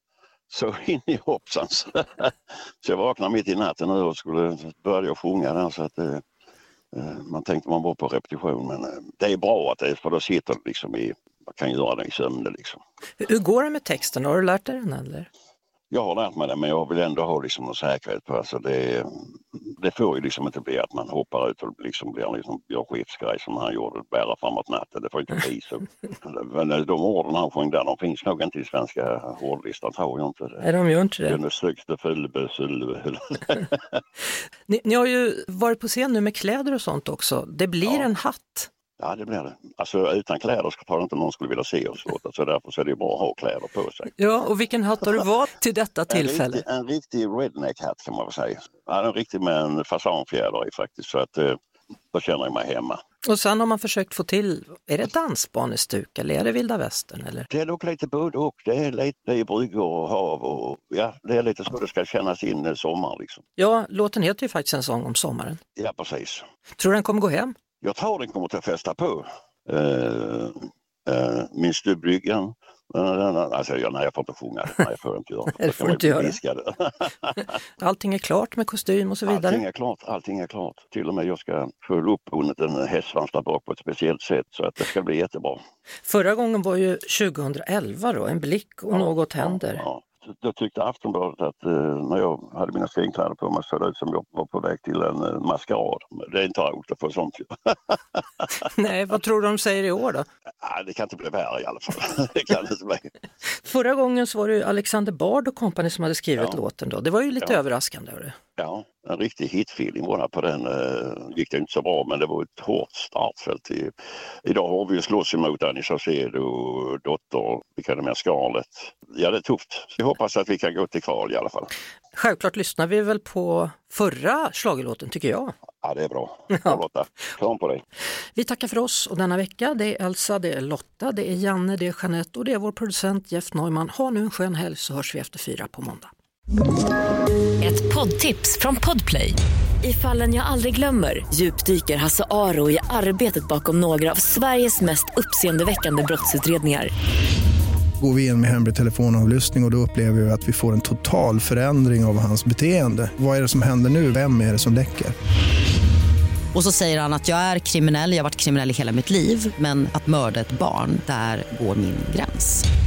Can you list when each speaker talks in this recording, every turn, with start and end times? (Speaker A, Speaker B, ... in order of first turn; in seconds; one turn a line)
Speaker A: 0.5-6.2
Speaker A: 6.9-12.8
Speaker B: 13.2-15.3
Speaker A: 15.9-30.6
Speaker B: 30.6-31.4
Speaker A: 31.2-34.0
Speaker B: 34.7-38.7
Speaker A: 39.0-44.1
Speaker B: 44.2-46.6
Speaker A: 46.1-51.6
Speaker A: 52.1-53.0
Speaker B: 53.2-57.5
Speaker A: 57.5-63.4
Speaker B: 63.6-65.6
Speaker A: 65.8-66.4
Speaker B: 66.8-67.5
Speaker A: 67.8-77.5
Speaker B: 75.5-76.4
Speaker B: 77.8-79.6
Speaker A: 79.2-85.6
Speaker B: 86.0-89.8
Speaker A: 88.9-98.5
Speaker B: 98.6-100.2
Speaker A: 100.6-103.1
Speaker B: 103.6-108.3
Speaker A: 108.6-121.7
Speaker B: 122.1-125.5
Speaker A: 125.8-127.8
Speaker B: 126.5-126.8
Speaker B: 128.3-136.1
Speaker C: 137.6-146.9
Speaker D: 148.0-155.1
Speaker E: 156.5-162.7